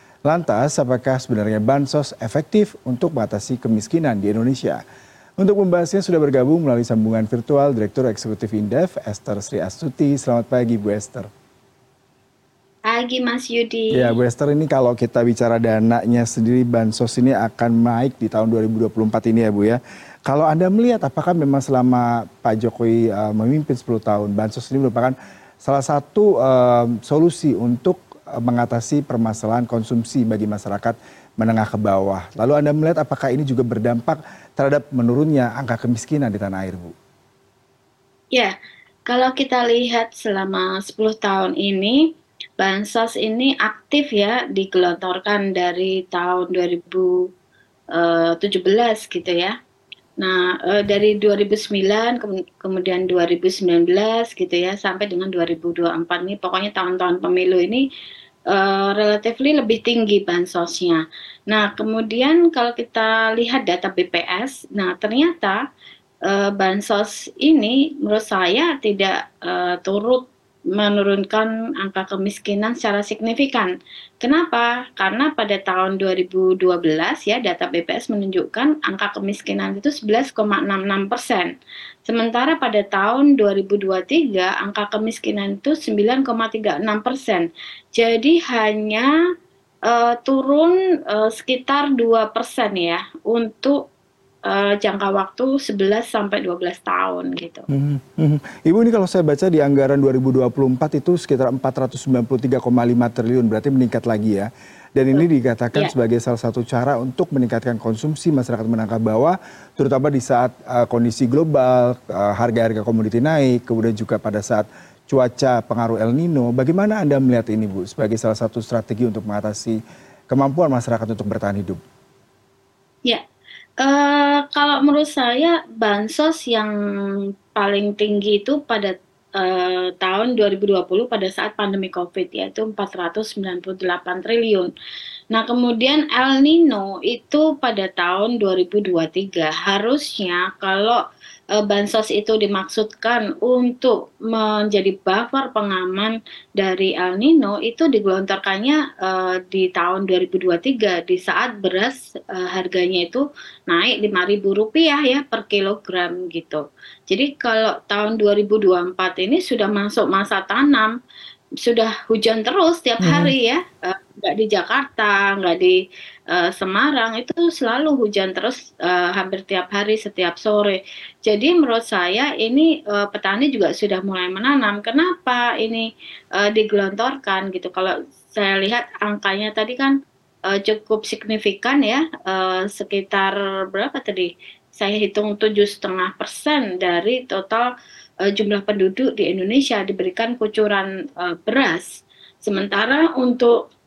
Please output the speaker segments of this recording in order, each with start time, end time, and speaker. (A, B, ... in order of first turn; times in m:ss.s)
0:00.3-0:04.8 A
0:05.4-0:11.3 A
0:12.9-0:14.1 B
0:13.9-0:36.9 A
0:39.1-0:42.0 B
0:42.6-0:47.1 B
0:47.9-0:49.5 B
0:50.2-0:57.8 B
0:58.5-1:05.6 B
1:06.3-1:13.7 B
1:14.2-1:21.5 B
1:22.0-1:29.1 B
1:29.9-1:33.8 B
1:34.5-1:37.6 B
1:37.7-1:59.8 A
1:45.1-1:45.9 B
2:00.3-2:01.8 A
2:03.8-2:06.7 B
2:07.6-2:14.7 B
2:15.3-2:21.0 B
2:21.5-2:40.9 B
2:41.6-2:45.8 B
2:43.0-2:43.3 A
2:46.3-2:59.9 B
3:00.5-3:07.7 B
3:08.3-3:13.5 B